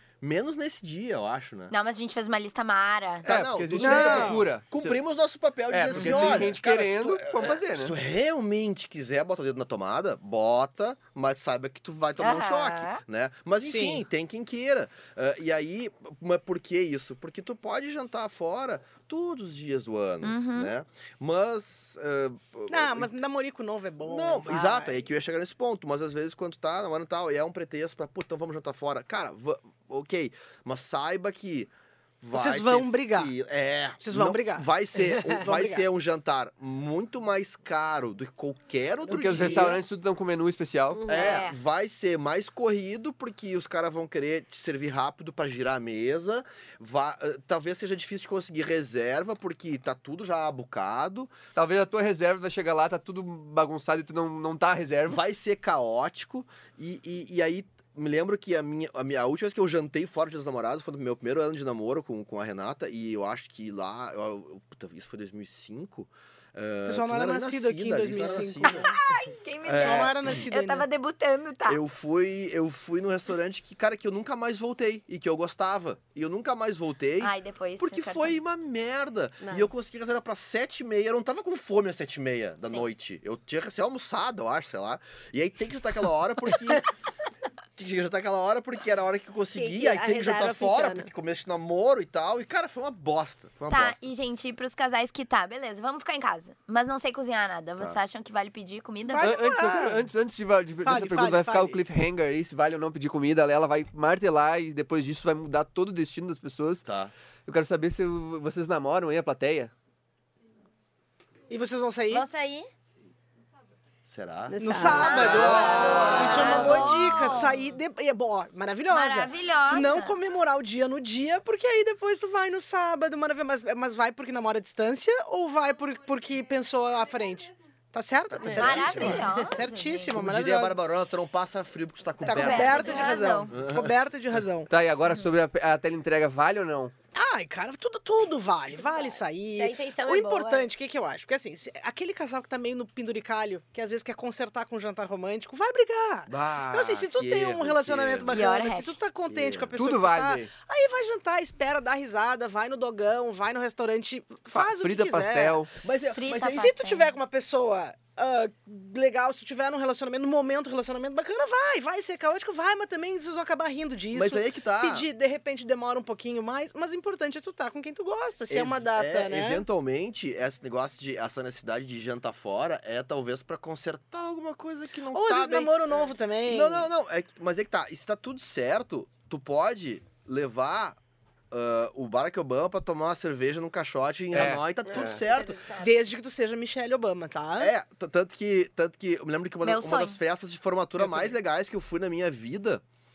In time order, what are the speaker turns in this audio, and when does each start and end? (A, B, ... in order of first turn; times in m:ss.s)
0:00.2-0:01.7 A
0:01.7-0:03.3 B
0:03.2-0:05.0 C
0:03.2-0:23.1 A
0:03.8-0:04.4 D
0:05.7-0:07.9 C
0:05.9-0:06.4 D
0:12.2-0:13.0 B
0:13.6-0:14.0 D
0:20.2-0:20.7 B
0:22.7-0:25.0 D
0:24.0-0:39.8 A
0:32.3-0:33.3 D
0:34.0-0:34.7 D
0:35.4-0:35.8 D
0:39.1-0:41.0 C
0:39.3-0:39.6 D
0:40.9-0:41.5 E
0:41.1-0:51.4 A
0:41.1-0:41.5 B
0:51.5-0:55.2 C
0:55.1-1:08.9 A
1:06.8-1:08.9 D
1:09.1-1:10.1 E
1:09.6-1:11.8 B
1:09.6-1:10.2 A
1:09.8-1:10.9 D
1:11.6-1:26.9 A
1:17.2-1:18.4 B
1:19.4-1:19.7 E
1:27.8-1:34.1 A
1:29.5-1:31.1 E
1:33.7-1:39.3 B
1:39.1-1:40.0 D
1:39.2-1:46.8 C
1:40.8-1:41.8 D
1:46.8-1:47.1 A
1:47.4-1:49.7 C
1:51.5-1:52.2 D
1:52.1-1:52.7 B
1:54.0-1:57.1 A
1:54.5-1:55.6 E
1:54.6-2:10.8 D
1:54.9-1:57.6 B
1:55.2-1:56.7 C
1:56.1-1:56.7 E
1:58.9-2:00.2 B
2:08.3-2:09.3 A
2:08.4-2:09.5 E
2:08.5-2:10.1 B
2:10.1-2:13.9 A
2:12.2-2:14.7 D
2:12.3-2:13.6 B
2:14.7-2:16.9 C
2:17.1-2:35.6 D
2:19.5-2:20.7 E
2:26.3-2:28.3 A
2:28.3-2:29.0 B
2:29.2-2:29.7 A
2:29.8-2:30.5 C
2:34.5-2:35.7 C
2:35.8-2:36.7 A
2:36.1-2:37.2 B
2:36.4-2:49.6 D
2:44.1-2:45.1 A
2:48.5-2:55.8 A
2:55.1-2:56.9 D
2:56.5-3:01.0 A
3:01.5-3:05.6 A
3:04.3-3:05.2 C
3:04.8-3:05.9 E
3:05.8-3:07.7 D
3:07.6-3:12.8 A
3:09.6-3:10.2 B